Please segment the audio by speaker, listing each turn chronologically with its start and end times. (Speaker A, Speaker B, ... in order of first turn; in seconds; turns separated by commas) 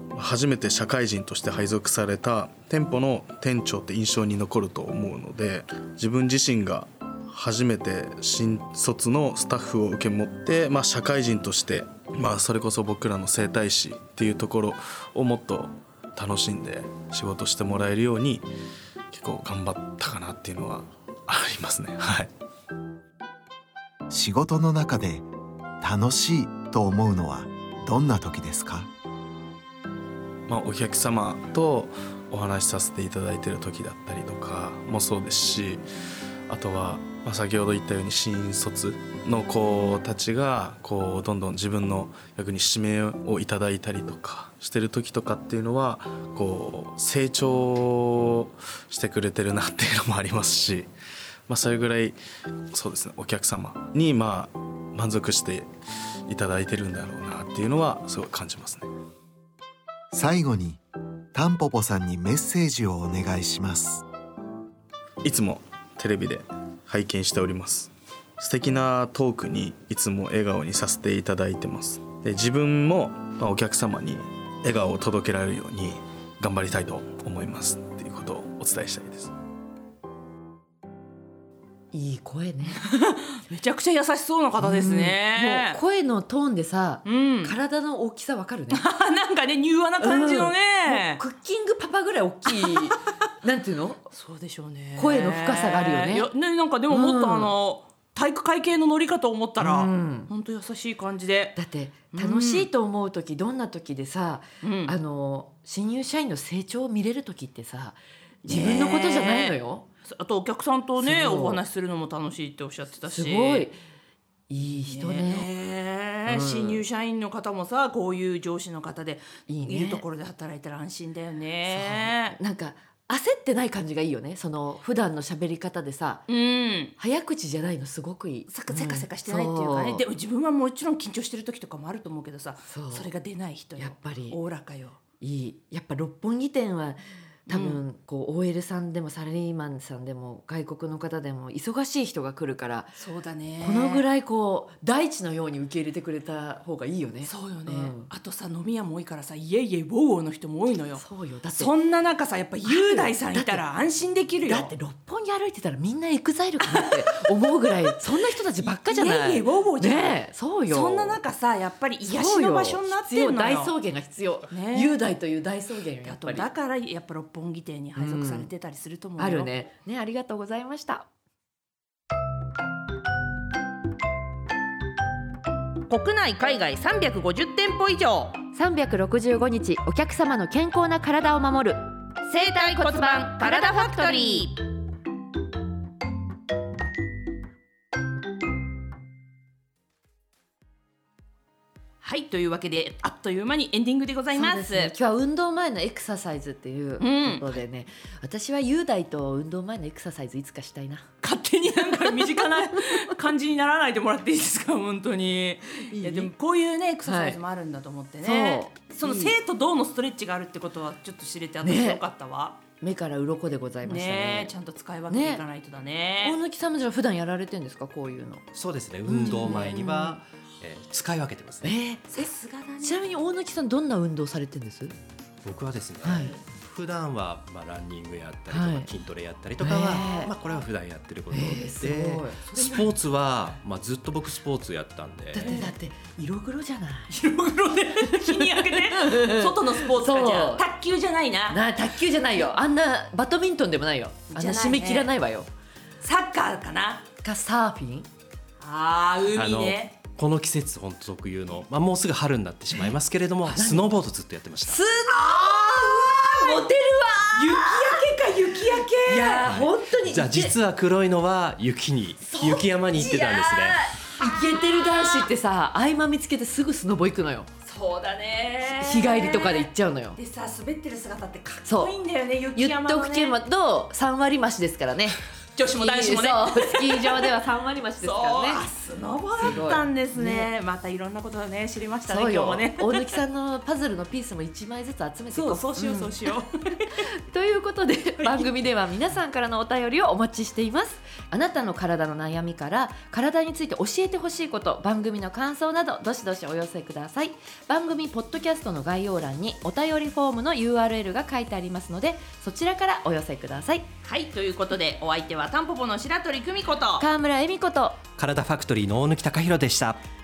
Speaker A: 0.1-18.5, Speaker A: 19.1-22.3, Speaker B: 24.1-25.3, Speaker B: 25.8-28.9, Speaker A: 30.5-35.9, Speaker A: 36.5-50.9, Speaker A: 51.5-52.2, Speaker A: 52.7-55.7, Speaker A: 56.3-58.9, Speaker B: 60.1-60.8, Speaker B: 61.3-64.0, Speaker A: 65.2-79.3, Speaker C: 81.9-82.8, Speaker D: 82.8-85.8, Speaker C: 84.6-88.8, Speaker D: 87.0-87.6, Speaker D: 88.7-91.2, Speaker C: 90.0-94.0, Speaker D: 94.1-101.6, Speaker C: 95.0-96.3, Speaker C: 96.9-97.5, Speaker C: 99.6-100.3, Speaker C: 101.6-109.8, Speaker D: 102.1-102.7, Speaker D: 104.6-104.9, Speaker D: 108.5-113.7, Speaker C: 111.0-111.6, Speaker C: 113.1-113.8, Speaker C: 114.5-115.5, Speaker D: 114.8-122.4, Speaker C: 116.3-116.8, Speaker C: 119.5-120.0, Speaker C: 121.7-126.3, Speaker D: 126.3-126.9, Speaker C: 127.0-130.1, Speaker D: 128.5-135.0, Speaker C: 132.7-133.1, Speaker C: 133.8-134.4, Speaker C: 135.2-143.0, Speaker D: 137.5-137.8, Speaker D: 143.0-144.1, Speaker C: 143.6-148.1, Speaker D: 147.2-154.7, Speaker C: 151.0-151.7, Speaker C: 152.6-153.7, Speaker C: 154.4-161.2, Speaker D: 156.7-157.2, Speaker D: 158.6-163.7, Speaker C: 162.0-166.5, Speaker D: 164.5-165.0, Speaker D: 166.0-169.6, Speaker C: 168.0-168.5, Speaker C: 169.2-171.1, Speaker D: 175.9-178.4, Speaker C: 178.5-181.8, Speaker D: 182.3-184.6, Speaker C: 182.3-184.5, Speaker D: 192.0-194.9, Speaker C: 194.3-201.1, Speaker D: 197.0-197.5, Speaker D: 201.2-212.6, Speaker C: 201.7-202.4, Speaker C: 205.9-206.3, Speaker C: 207.1-207.4, Speaker C: 208.2-209.4, Speaker C: 211.6-212.0, Speaker C: 212.8-214.5, Speaker D: 213.8-216.4, Speaker C: 215.1-215.4, Speaker C: 216.2-218.4, Speaker E: 218.5-221.8, Speaker C: 219.1-220.2, Speaker C: 221.6-222.3, Speaker D: 222.1-223.1, Speaker C: 222.8-224.9, Speaker E: 225.4-235.5, Speaker C: 226.0-226.3, Speaker C: 228.5-228.9, Speaker C: 229.6-230.3, Speaker C: 231.3-232.9, Speaker C: 235.3-237.1, Speaker D: 235.4-235.7, Speaker D: 237.1-241.6, Speaker C: 238.3-240.7, Speaker C: 241.5-245.5, Speaker D: 244.3-245.1, Speaker D: 246.0-247.0, Speaker C: 247.2-248.1, Speaker D: 248.6-249.9, Speaker E: 249.3-254.8, Speaker C: 253.5-253.9, Speaker C: 254.7-260.6, Speaker D: 255.1-256.6, Speaker D: 257.3-259.5, Speaker E: 259.4-263.8, Speaker D: 262.3-265.3, Speaker C: 263.0-263.2, Speaker C: 263.9-267.5, Speaker D: 267.6-273.4, Speaker C: 268.8-270.2, Speaker C: 271.6-271.9, Speaker C: 272.5-275.2, Speaker D: 275.6-277.3, Speaker C: 275.7-278.6, Speaker D: 278.0-283.1, Speaker C: 279.4-280.5, Speaker C: 282.1-286.2, Speaker D: 285.3-287.0, Speaker C: 287.2-303.9, Speaker D: 288.2-288.5, Speaker D: 304.0-307.1, Speaker C: 307.0-308.0, Speaker E: 308.2-310.0